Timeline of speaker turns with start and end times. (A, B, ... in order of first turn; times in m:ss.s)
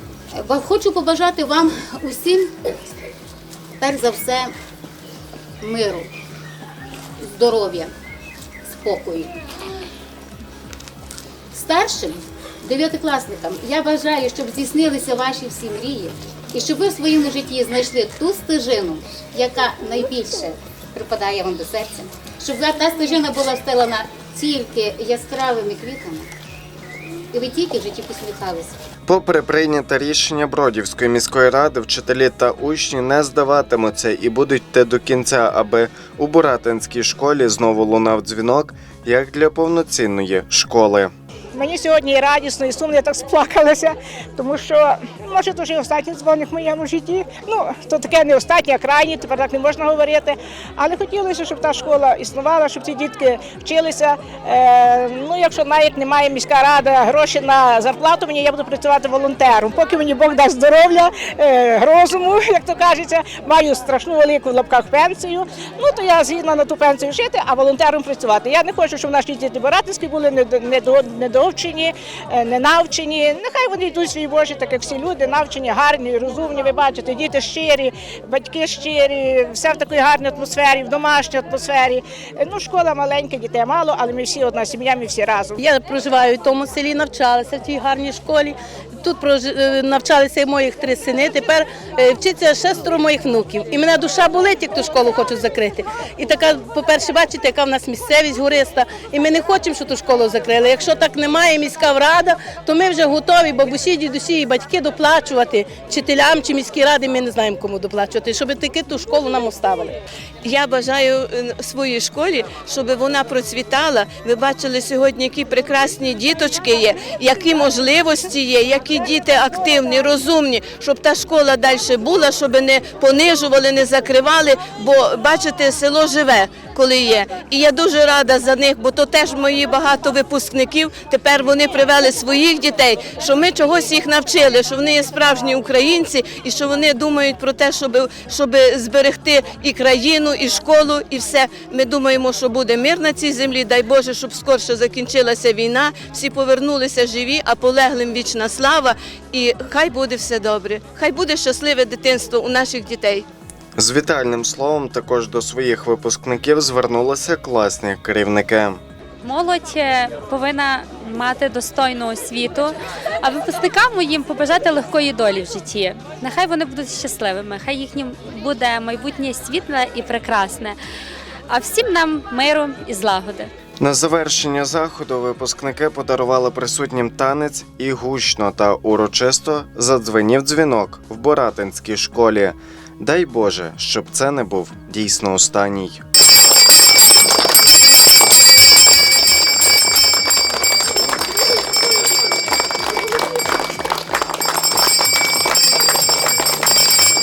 0:00.3-0:02.5 A
0:03.8-0:04.5 A
0:05.6-0:06.1 A
0:07.2-0:07.9 A
0:08.7-0:09.3 A
0:11.5-0:26.3 A
0:27.3-0:28.7 A
0:29.1-0:41.1 B
0:41.5-1:25.6 C
1:25.6-1:50.0 D
1:50.4-2:33.3 E
2:33.8-2:38.8 B
2:39.2-2:50.8 F
2:51.5-2:53.5 F
2:53.8-3:06.0 B